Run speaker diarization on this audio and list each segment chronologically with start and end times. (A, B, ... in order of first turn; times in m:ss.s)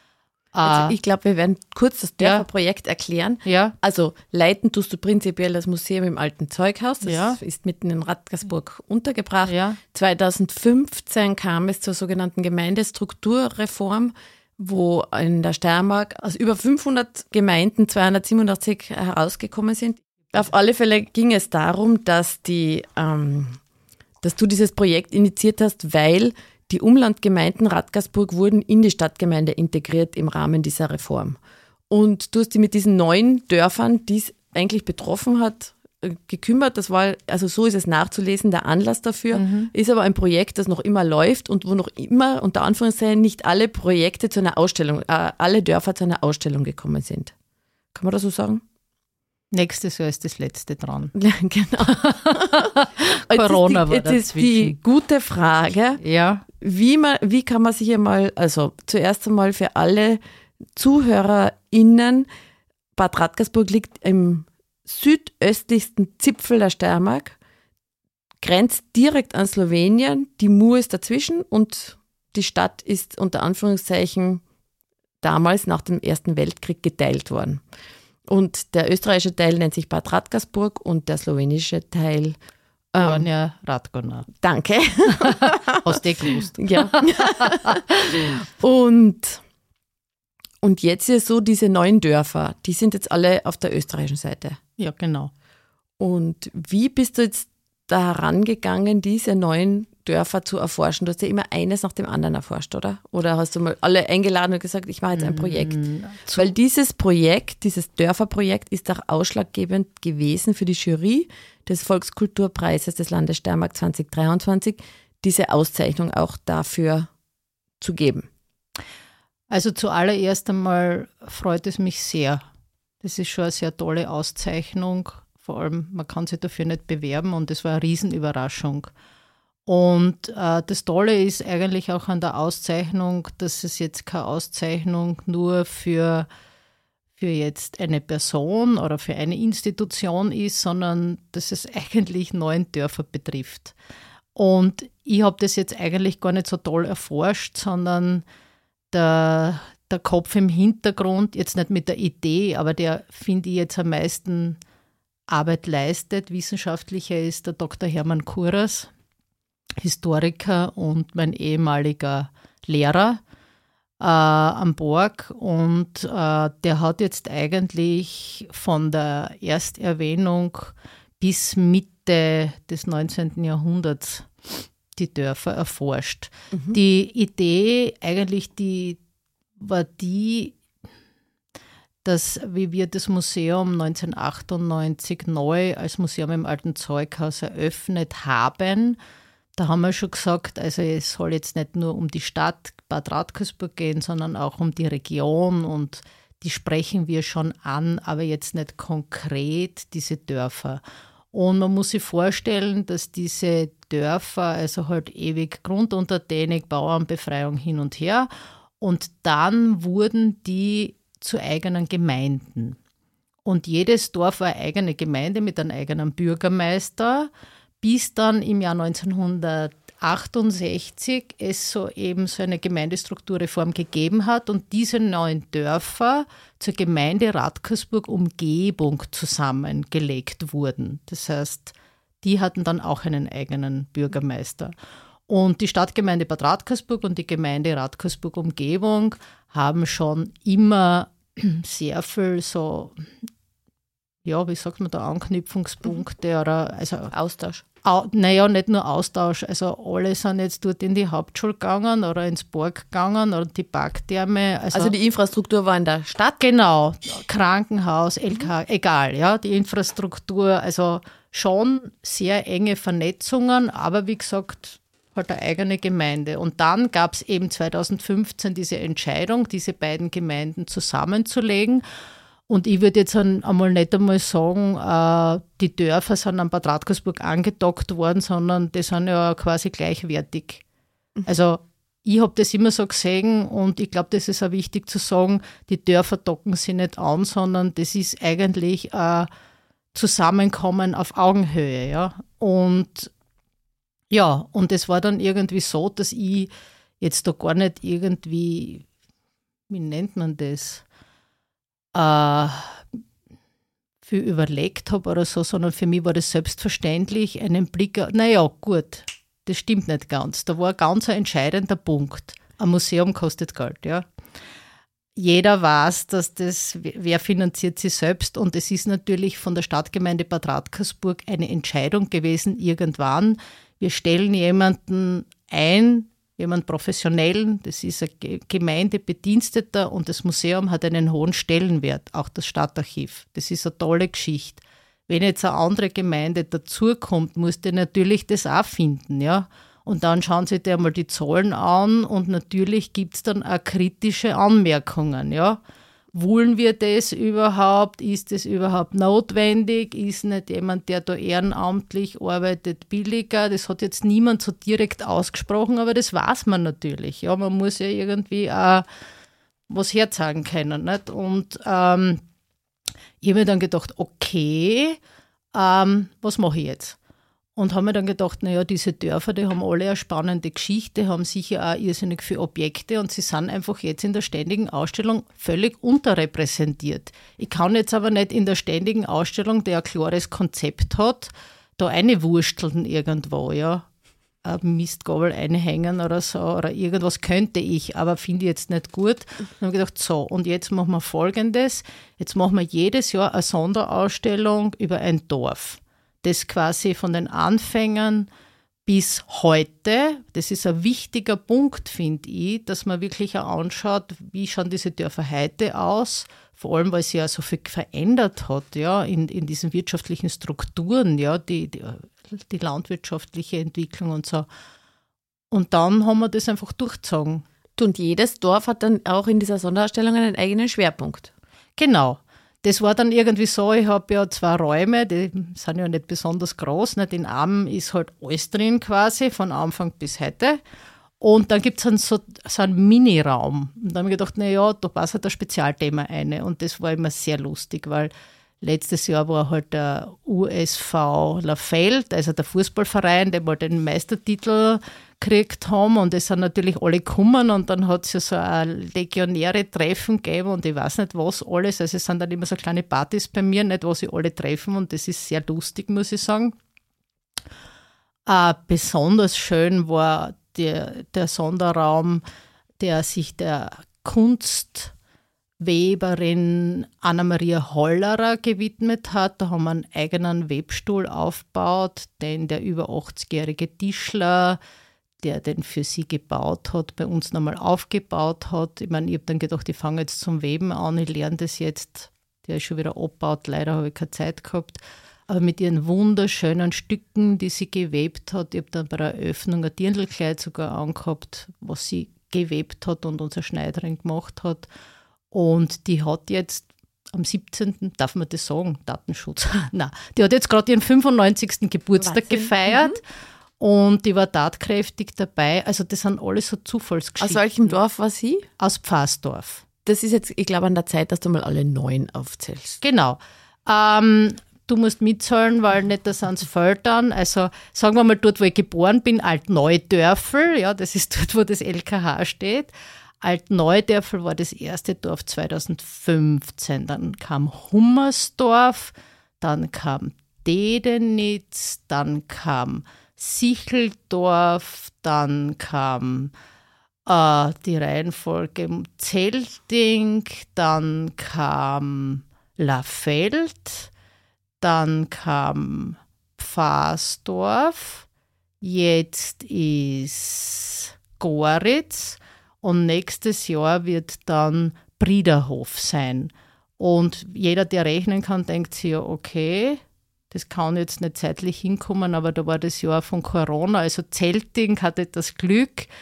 0:00.5-0:00.9 A
0:00.6-0:23.6 B
0:02.2-0:02.4 A
0:03.4-0:03.7 A
0:07.0-0:07.4 A
0:09.4-0:09.8 A
0:24.2-0:31.4 B
0:31.9-0:47.3 B
0:39.3-0:39.7 A
0:47.9-0:48.6 B
0:49.5-0:51.1 A
0:51.1-0:52.7 B
0:51.8-0:54.8 A
0:53.3-0:56.0 B
0:56.0-0:56.4 A
0:56.6-1:00.2 B
1:00.7-1:02.3 B
1:02.9-1:07.3 B
1:08.4-1:14.4 B
1:15.2-1:17.6 B
1:18.2-1:22.4 B
1:22.9-1:23.3 B
1:23.0-1:24.3 A
1:24.4-1:26.0 B
1:25.8-1:27.8 A
1:26.6-1:29.4 B
1:30.6-1:34.6 B
1:34.8-1:35.3 A
1:36.0-1:57.1 B
1:45.1-1:46.5 A
1:57.8-1:58.3 B
1:59.5-2:02.4 A
2:03.0-2:08.9 A
2:09.7-2:16.2 A
2:17.2-2:23.7 A
2:24.3-2:28.2 A
2:28.9-2:34.6 A
2:35.3-2:38.9 A
2:39.8-2:43.2 A
2:44.0-2:54.3 A
2:54.9-2:59.0 A
2:59.6-3:00.6 A
3:02.0-3:09.0 A
3:09.6-3:20.8 A
3:21.3-3:28.3 A
3:28.8-3:32.8 A
3:33.4-3:37.3 A
3:37.8-3:54.7 A
3:55.3-4:03.1 A
4:04.2-4:07.1 A
4:07.1-4:07.6 B
4:07.8-4:14.9 A
4:14.7-4:16.4 B
4:16.4-4:31.8 A
4:32.5-4:40.6 A
4:41.2-4:49.3 A
4:49.9-4:53.1 A
4:54.1-4:58.9 A
4:59.7-5:00.8 A
5:01.9-5:02.9 A
5:04.0-5:14.0 A
5:15.2-5:45.6 A
5:46.1-5:58.8 A
5:59.7-6:02.2 A
6:03.2-6:05.0 A
6:05.5-6:07.0 A
6:07.6-6:23.8 A
6:24.4-6:38.3 A
6:38.8-6:54.4 A
6:55.5-6:57.4 A
6:57.8-7:01.3 B
7:01.8-7:10.6 A
7:11.2-7:18.1 A
7:18.6-7:36.6 A
7:38.2-7:42.2 A
7:42.8-7:44.9 A
7:45.6-7:54.6 A
7:55.2-8:14.7 A
8:15.3-8:23.0 A
8:22.0-8:23.0 B
8:23.6-8:27.8 A
8:27.2-8:28.5 B
8:28.6-8:29.6 A
8:29.8-8:32.8 B
8:32.8-8:56.3 A
8:57.0-9:03.9 A
9:04.6-9:08.0 A
9:08.6-9:25.9 A